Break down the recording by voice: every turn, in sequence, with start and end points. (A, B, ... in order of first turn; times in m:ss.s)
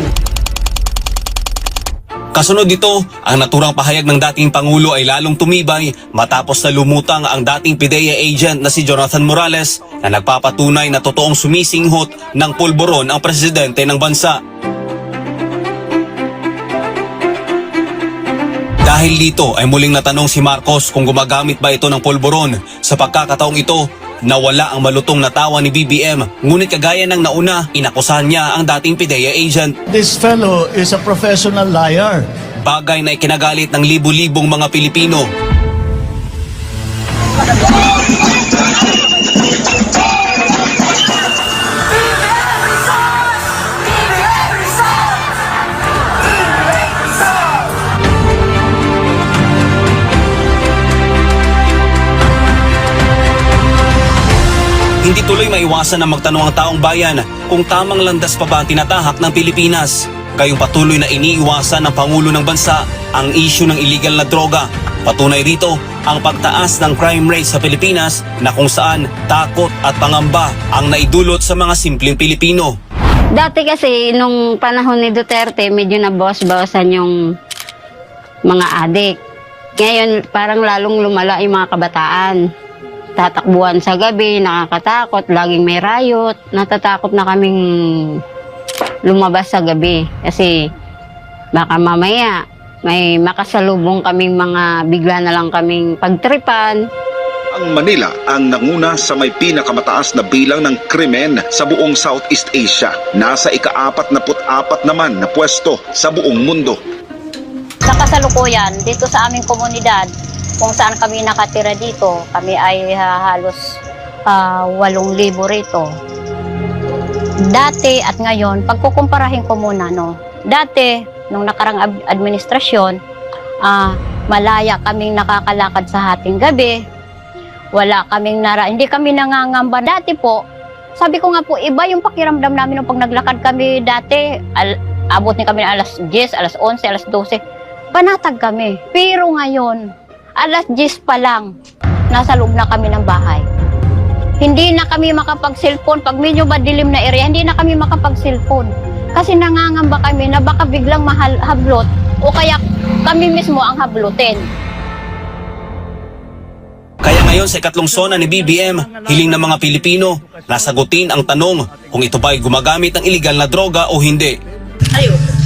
0:02.3-0:14.4 A
0:18.8-0:29.7 A
0:30.0-0:32.1 B
0:32.7-0:35.3 A
0:55.0-1:12.7 A
1:13.4-1:17.1 C
1:18.5-1:19.1 C
1:19.8-1:22.4 C
1:23.2-1:28.2 C
1:29.1-1:30.6 C
1:31.5-1:36.8 C
1:37.5-1:46.8 D
1:47.8-1:50.1 E
1:50.6-1:53.6 E
1:54.3-1:55.9 E
1:57.5-2:03.0 E
2:03.7-2:06.8 E
2:07.8-2:10.4 E
2:11.0-2:17.4 E
2:17.9-2:19.8 E
2:20.4-2:21.5 E
2:22.1-2:23.4 E
2:24.4-2:34.5 E
2:37.0-2:44.3 A